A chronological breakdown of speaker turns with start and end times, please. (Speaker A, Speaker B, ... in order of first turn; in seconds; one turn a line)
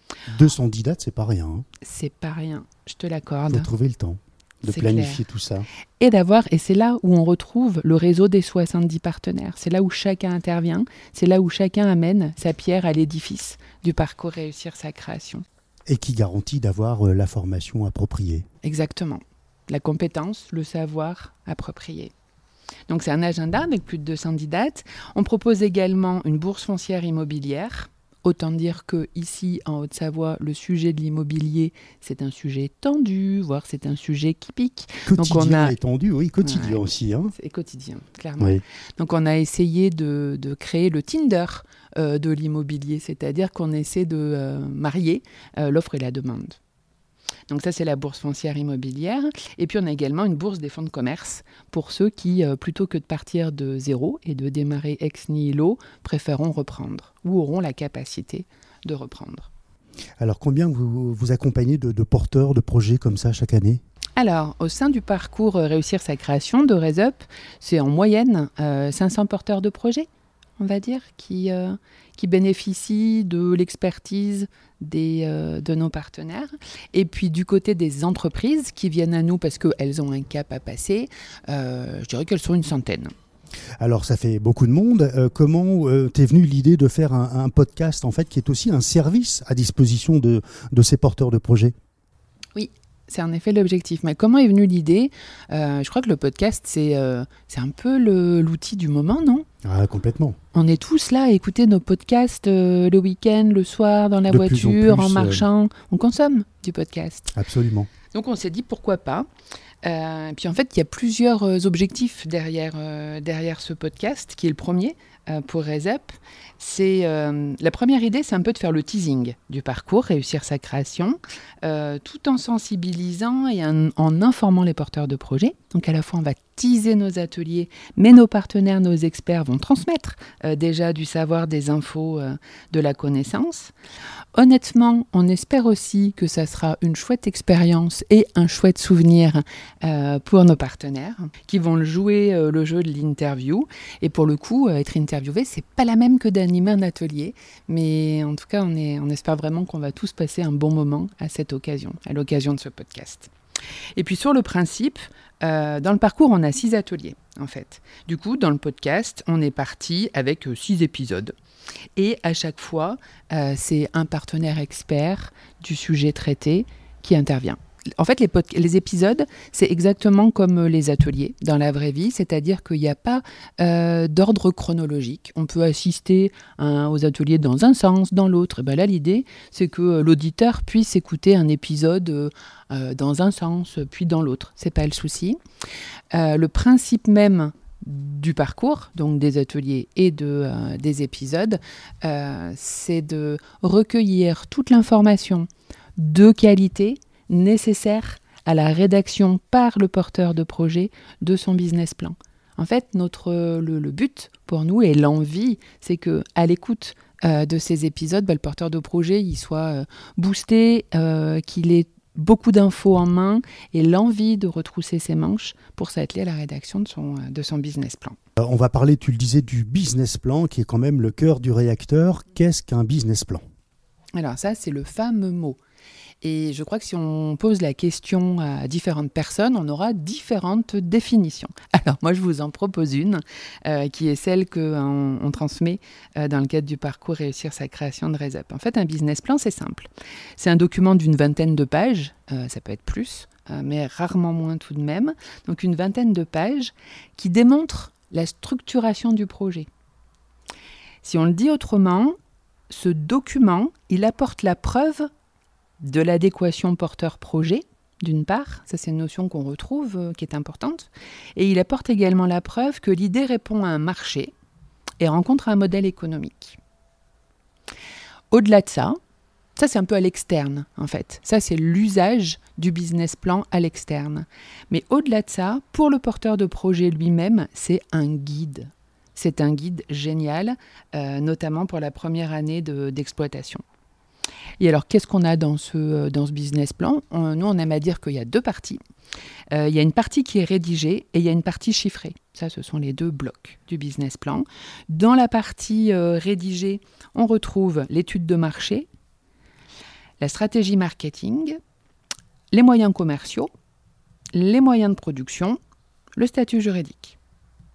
Speaker A: 0.3-1.6
Speaker B: 1.8-3.7
Speaker A: 3.5-5.7
Speaker B: 4.7-5.2
Speaker B: 6.0-15.4
Speaker A: 15.9-18.5
Speaker B: 18.6-22.1
Speaker B: 22.9-35.7
Speaker A: 35.1-37.3
Speaker B: 36.4-36.8
Speaker B: 37.4-46.6
Speaker B: 47.5-59.5
Speaker A: 60.2-63.8
Speaker B: 64.2-70.1
Speaker B: 70.6-83.1
Speaker A: 83.8-91.7
Speaker B: 92.5-99.5
Speaker A: 99.6-100.4
Speaker B: 100.5-107.3
Speaker A: 104.3-105.4
Speaker A: 107.3-107.9
Speaker B: 108.1-109.2
Speaker B: 109.8-133.7
Speaker B: 134.3-153.3
Speaker B: 153.9-161.3
Speaker B: 161.9-185.4
Speaker B: 186.1-218.2
Speaker A: 218.4-223.4
Speaker B: 224.1-225.6
Speaker B: 226.2-249.7
Speaker B: 251.0-252.2
Speaker B: 252.7-255.1
Speaker B: 255.8-264.3
Speaker B: 265.0-266.6
Speaker B: 268.3-269.0
Speaker B: 269.6-283.6
Speaker B: 284.6-288.8
Speaker B: 289.5-298.9
Speaker B: 300.2-301.6
Speaker B: 302.5-303.5
Speaker B: 304.3-305.6
Speaker B: 306.1-307.1